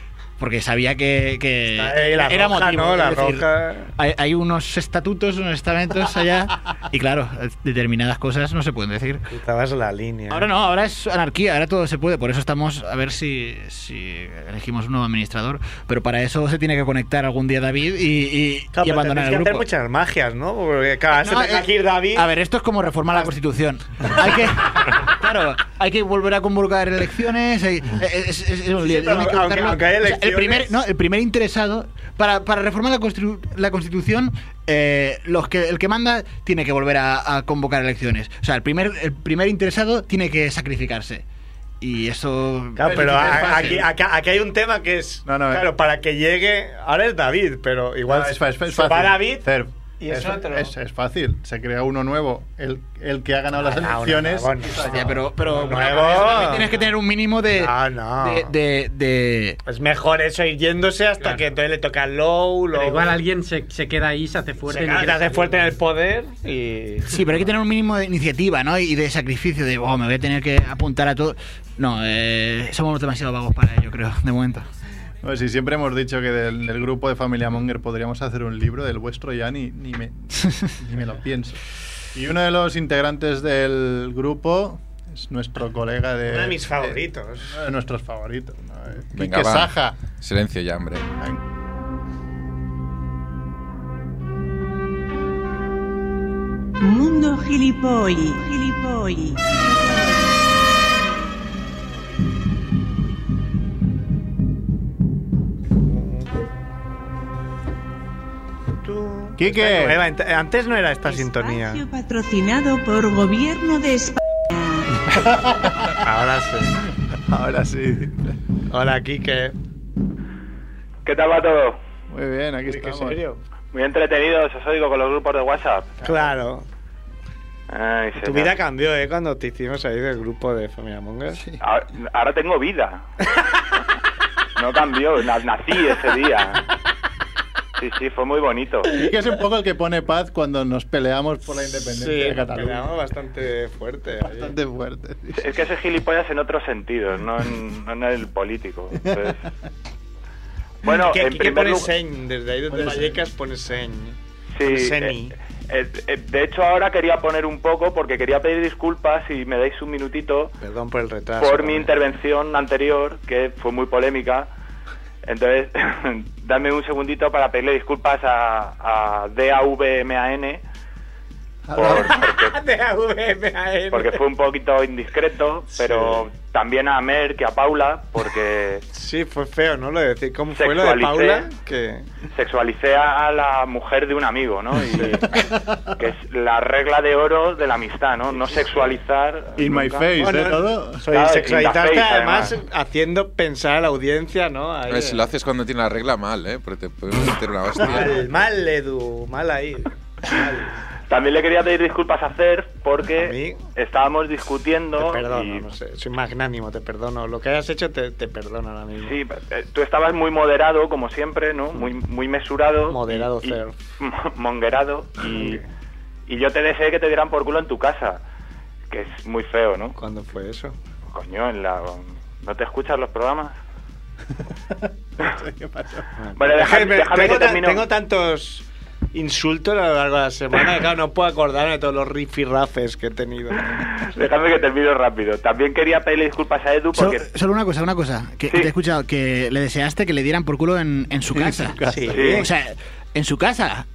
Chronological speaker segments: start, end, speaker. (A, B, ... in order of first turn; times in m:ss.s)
0:00.4-0:09.2 A
0:01.7-0:03.9 B
0:09.3-0:10.5 B
0:10.3-0:19.7 A
0:18.7-0:22.3 B
0:21.1-0:41.2 A
0:28.8-0:30.8 B
0:41.8-0:43.8 A
0:42.8-0:50.7 B
0:42.8-0:43.9 C
0:45.3-0:45.7 C
0:48.1-0:55.9 C
0:53.6-0:56.8 B
0:54.8-0:59.6 A
0:57.6-0:58.5 B
0:59.6-1:03.2 B
1:02.7-1:05.7 D
1:04.7-1:07.2 B
1:07.1-1:14.7 A
1:15.2-1:21.6 C
1:22.1-1:30.0 C
1:26.3-1:27.6 B
1:29.2-1:31.1 E
1:36.8-1:39.9 F
1:45.8-1:46.3 B
1:48.8-1:51.8 B
1:49.4-1:50.0 C
1:51.1-1:54.9 F
1:55.2-1:56.0 C
1:55.9-1:56.8 B
1:57.2-1:58.4 C
1:58.7-1:59.6 B
2:01.1-2:01.8 G
2:02.1-2:03.2 C
2:02.7-2:03.4 B
2:03.7-2:06.3 G
2:06.0-2:06.7 B
2:07.7-2:08.6 G
2:08.2-2:11.4 B
2:11.4-2:11.6 C
2:11.6-2:13.0 G
2:14.6-2:16.6 G
2:17.8-2:18.9 G
2:18.9-2:22.9 C
2:21.8-2:24.5 B
2:24.2-2:25.5 C
2:25.4-2:29.3 G
2:30.8-2:31.9 G
2:30.8-2:35.4 B
2:32.7-2:33.2 C
2:34.6-2:35.2 G
2:35.7-2:40.5 G
2:40.6-2:41.9 B
2:41.4-2:44.5 G
2:45.3-2:50.6 G
2:51.7-2:52.1 C
2:51.8-2:52.5 G
2:51.9-2:54.2 B
2:53.9-2:58.8 G
2:55.7-2:56.3 B
2:58.9-3:02.1 B
3:00.6-3:01.5 G
3:02.4-3:05.5 G
3:05.3-3:05.9 C
3:06.0-3:10.1 G
3:09.6-3:11.0 C
3:10.2-3:15.3 B
3:11.1-3:12.6 G
3:14.9-3:18.2 E
3:17.8-3:20.8 B
3:21.1-3:25.6 G
3:23.1-3:23.6 B
3:25.0-3:29.2 B
3:29.0-3:35.6 G
3:32.9-3:33.8 B
3:35.3-3:35.6 B
3:36.3-3:38.2 G
3:38.9-3:39.9 G
3:40.0-3:40.8 B
3:41.1-3:43.5 G
3:44.7-3:46.1 C
3:46.2-3:53.9 B
3:46.4-3:47.8 G
3:54.0-3:57.2 G
3:57.0-4:03.9 A
4:01.3-4:02.4 C
4:01.9-4:02.5 B